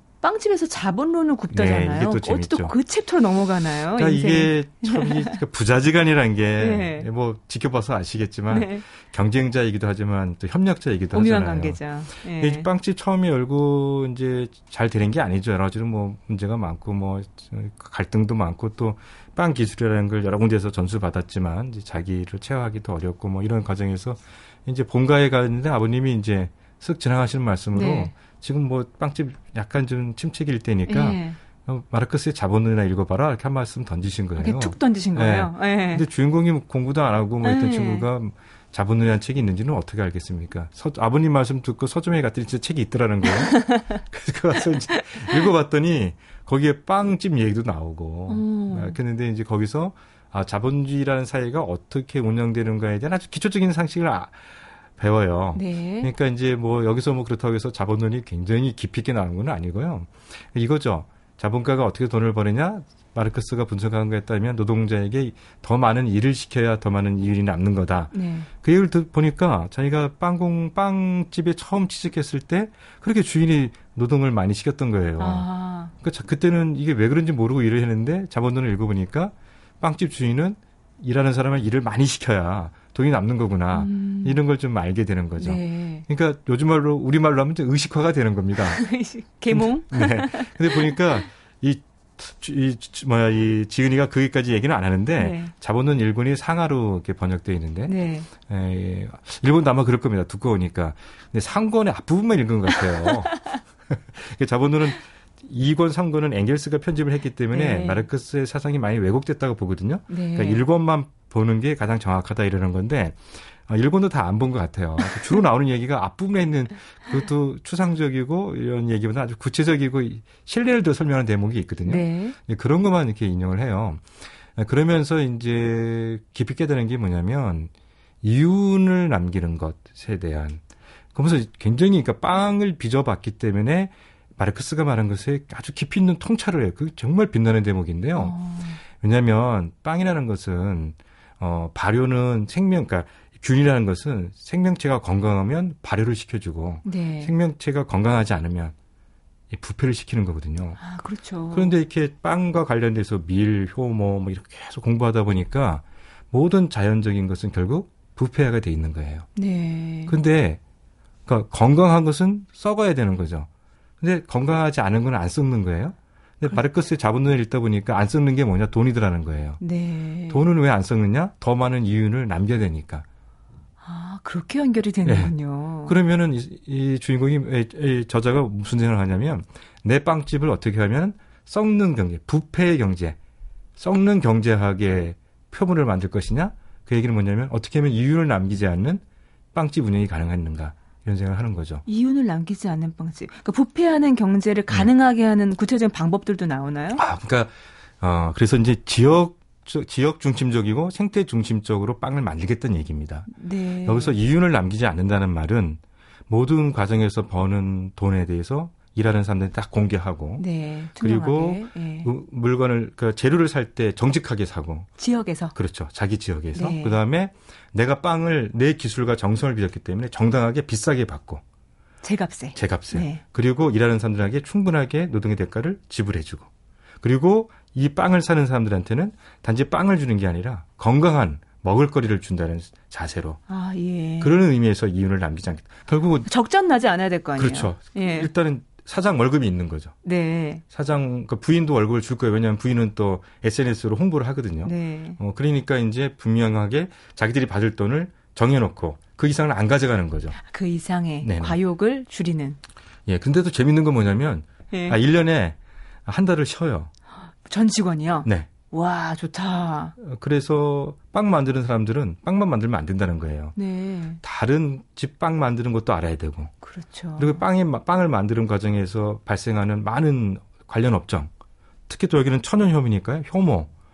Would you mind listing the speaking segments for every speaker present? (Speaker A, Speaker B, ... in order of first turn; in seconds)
Speaker A: 0.2-5.4, 6.6-7.1, 8.5-8.8, 11.1-12.7, 27.7-28.1, 30.9-31.4, 34.4-36.0, 37.4-38.0, 43.5-44.0, 44.9-45.4, 48.3-49.0, 55.5-56.1, 68.1-68.5, 75.2-75.9, 83.7-84.4, 85.4-86.0, 88.7-91.0, 95.2-95.5, 97.9-98.3, 107.5-108.0, 110.1-110.6, 121.8-122.3, 138.1-138.8, 146.8-147.3, 150.8-151.7, 159.3-160.2, 169.6-170.4, 173.8-175.9, 191.9-197.0, 203.3-204.1, 210.4-212.1, 215.0-215.5, 216.5-217.0, 222.0-223.2, 233.5-234.4, 236.2-238.3, 240.0-240.6, 244.6-245.2, 250.4-252.6, 254.7-255.0, 257.4-259.9, 263.6-264.2, 266.6-267.4
Speaker B: 1.5-2.7, 4.0-75.5, 76.0-89.0, 89.5-127.7, 128.2-130.6, 131.1-148.7, 149.5-150.8, 151.5-159.3, 160.1-160.6, 161.3-163.5, 164.0-169.6, 170.3-173.0, 175.0-175.3, 175.8-183.2, 183.8-189.0, 189.5-191.8, 196.9-210.5, 211.0-215.0, 215.5-221.4, 222.5-226.5, 227.0-233.4, 234.2-236.3, 237.4-239.9, 240.7-250.4, 251.2-251.6, 253.1-256.9, 260.0-263.6, 264.2-266.5, 267.2-271.3, 271.9-273.7